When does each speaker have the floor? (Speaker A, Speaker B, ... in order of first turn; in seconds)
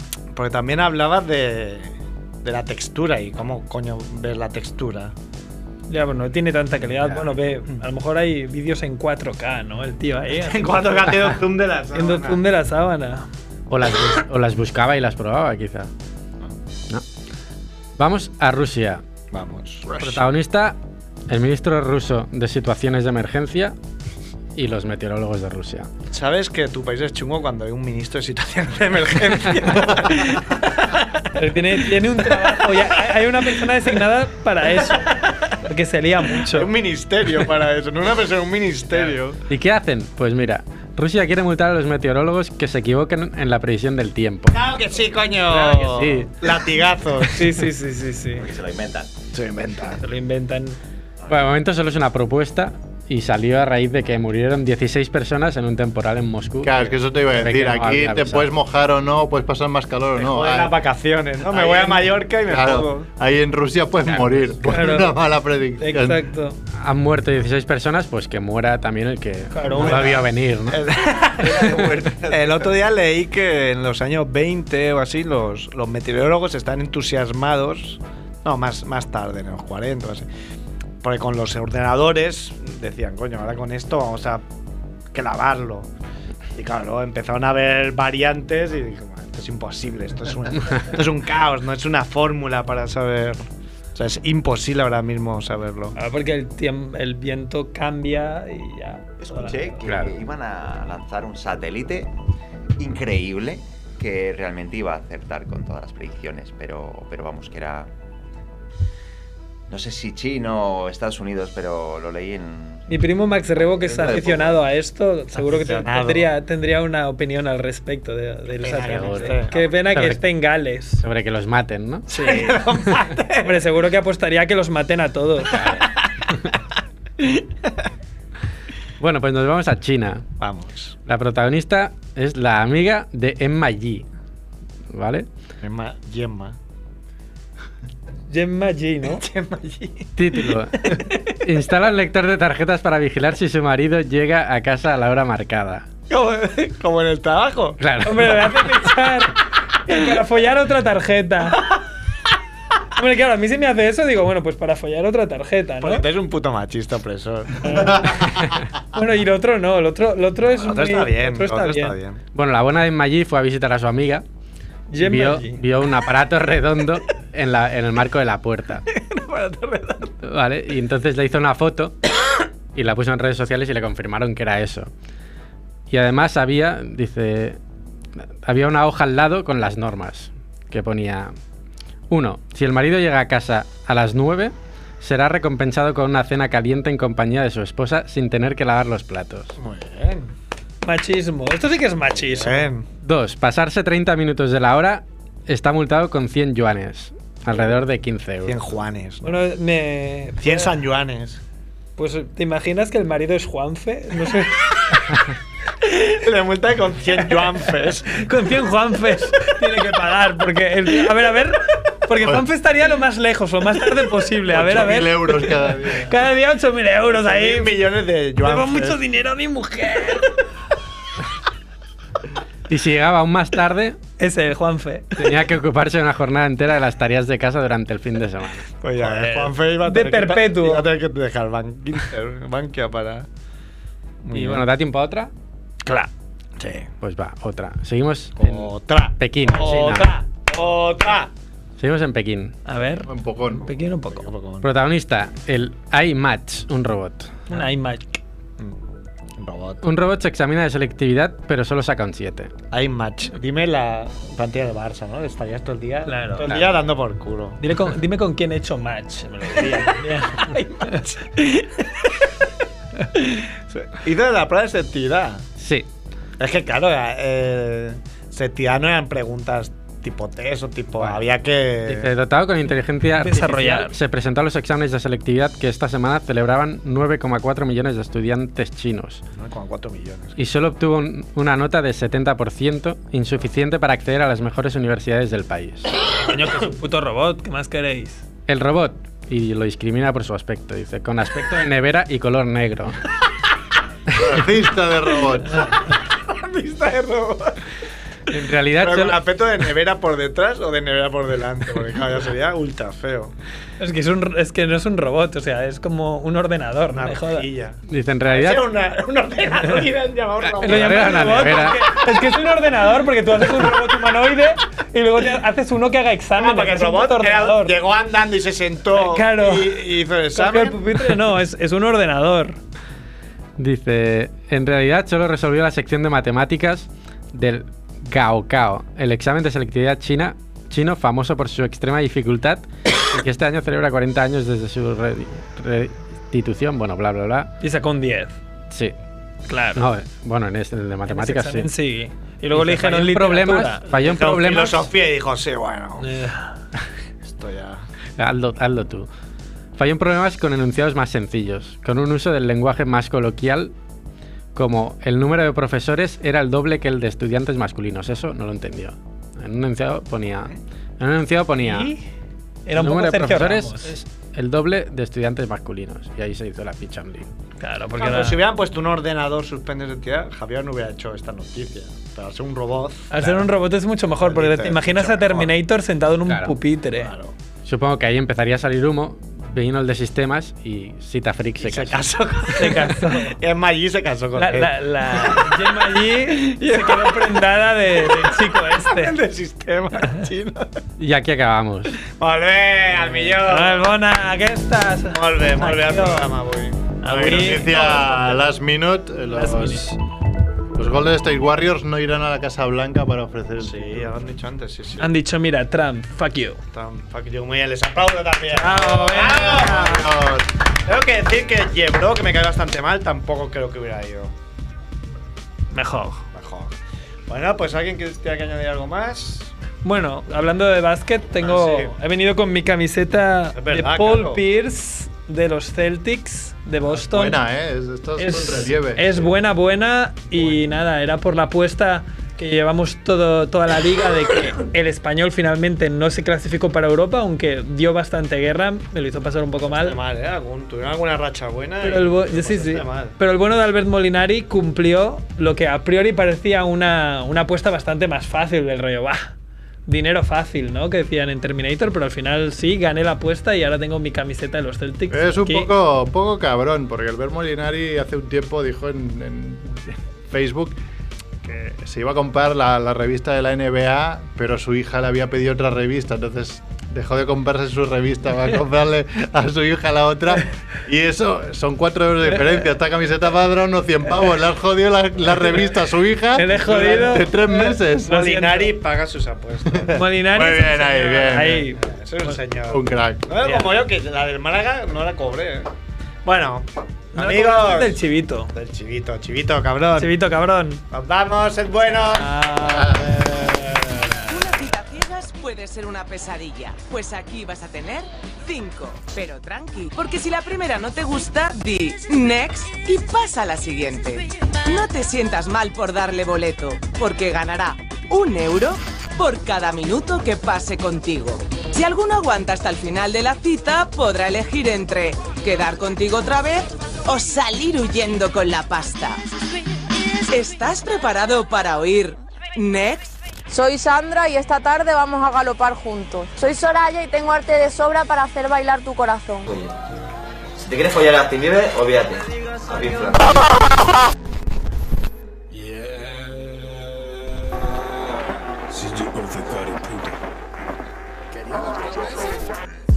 Speaker A: 0.3-5.1, 10.4-12.4, 19.3-20.2, 26.1-31.0, 32.4-32.8, 34.8-35.5, 36.4-39.4, 44.5-47.5, 49.3-50.0, 60.2-63.1, 69.7-80.3, 81.0-84.4, 85.1-85.9, 86.5-93.4, 93.9-96.0, 114.0-114.3, 115.3-116.3, 118.6-119.7, 122.1-123.6, 130.4-130.9, 135.6-136.6, 139.1-140.1, 146.1-148.4, 155.8-158.2, 160.5-162.2, 168.9-170.1, 189.6-190.3, 192.1-192.8, 198.4-199.4, 200.4-201.4, 205.8-208.2, 217.1-219.0, 228.8-233.3, 234.2-234.7, 235.8-236.9, 238.4-241.3, 244.1-244.7, 249.4-249.8, 252.7-257.6, 259.6-261.2, 263.5-265.4, 266.4-272.1, 279.4-280.4, 295.9-297.6, 298.8-303.3, 306.9-312.4, 313.4-314.1, 316.3-321.1, 343.9-346.1, 347.2-347.9, 368.0-373.5, 374.2-375.5, 376.9-377.3, 381.6-390.8, 392.1-393.9, 395.1-398.0, 403.6-405.1, 406.6-410.2, 410.8-414.3, 416.3-416.7, 417.3-419.5, 421.4-421.9, 423.5-424.4, 439.6-443.1, 476.6-477.2, 478.0-480.0, 481.8-485.7, 486.2-488.0, 488.5-490.1, 490.9-492.3
Speaker B: 5.9-11.4, 11.9-13.3, 31.3-36.7, 45.5-46.0, 47.3-48.5, 50.0-50.8, 64.6-65.2, 65.8-66.6, 69.5-70.2, 96.0-99.8, 112.9-121.0, 122.1-122.7, 123.3-125.8, 138.3-139.2, 148.0-151.7, 152.9-156.1, 157.6-158.2, 158.9-161.9, 164.9-165.6, 190.8-192.7, 199.2-200.7, 202.0-205.0, 208.1-217.8, 218.4-220.3, 224.2-225.3, 229.0-230.9, 242.7-243.1, 243.6-244.3, 247.5-248.2, 256.1-256.5, 257.6-261.8, 273.1-274.0, 286.2-288.2, 303.8-307.5, 310.6-317.8, 318.9-322.6, 337.6-338.4, 339.5-339.9, 341.1-343.9, 346.0-346.6, 361.6-362.0, 362.6-363.9, 367.6-368.4, 373.1-377.1, 382.5-383.4, 384.4-389.2, 393.0-396.3, 397.0-398.4, 399.3-399.9, 405.0-406.6, 408.5-409.9, 415.7-416.2, 419.8-427.4, 428.2-440.0, 441.8-449.3, 449.9-455.7, 476.3-478.8, 479.9-482.4, 483.4-483.7, 487.1-488.5, 490.0-490.8, 492.0-494.4
Speaker C: 13.7-15.9, 18.0-19.0, 20.0-20.8, 21.3-23.7, 24.6-25.9, 39.5-44.6, 45.8-46.3, 51.3-58.5, 64.1-64.4, 66.8-70.8, 99.8-100.1, 118.9-119.4, 119.9-120.2, 121.0-122.0, 125.5-125.8, 129.0-130.2, 131.1-134.0, 134.9-135.3, 140.2-145.8, 147.8-148.5, 162.3-164.2, 165.0-168.8, 170.2-172.0, 172.7-174.9, 175.9-177.6, 178.4-181.3, 182.1-189.6, 193.0-198.6, 222.7-224.0, 225.2-228.7, 234.3-235.3, 237.0-240.1, 241.8-242.6, 244.6-247.4, 249.8-252.5, 265.6-265.9, 271.9-279.2, 280.4-285.9, 288.5-293.0, 298.3-299.2, 307.9-308.7, 310.6-311.8, 323.6-337.5, 339.8-341.7, 342.6-344.9, 348.2-349.1, 349.8-353.7, 354.5-361.9, 362.7-367.3, 376.3-376.6, 377.6-382.1, 391.0-391.9
Speaker D: 48.4-49.1, 99.2-102.1, 102.8-107.9, 109.7-112.8, 113.6-114.6
Speaker E: 56.6-60.8, 61.7-66.2, 214.5-216.1, 243.0-243.7, 294.1-295.6, 397.2-400.0, 400.8-404.1, 409.2-410.4, 426.9-429.3, 455.1-460.8, 461.4-478.2, 479.7-481.7, 482.7-483.3, 492.7-493.1
Speaker F: 494.3-519.2, 520.3-523.1
Speaker G: 523.5-529.5
Speaker H: 529.5-529.7, 530.5-533.4
Speaker I: 535.5-538.2, 538.7-540.2, 541.5-542.4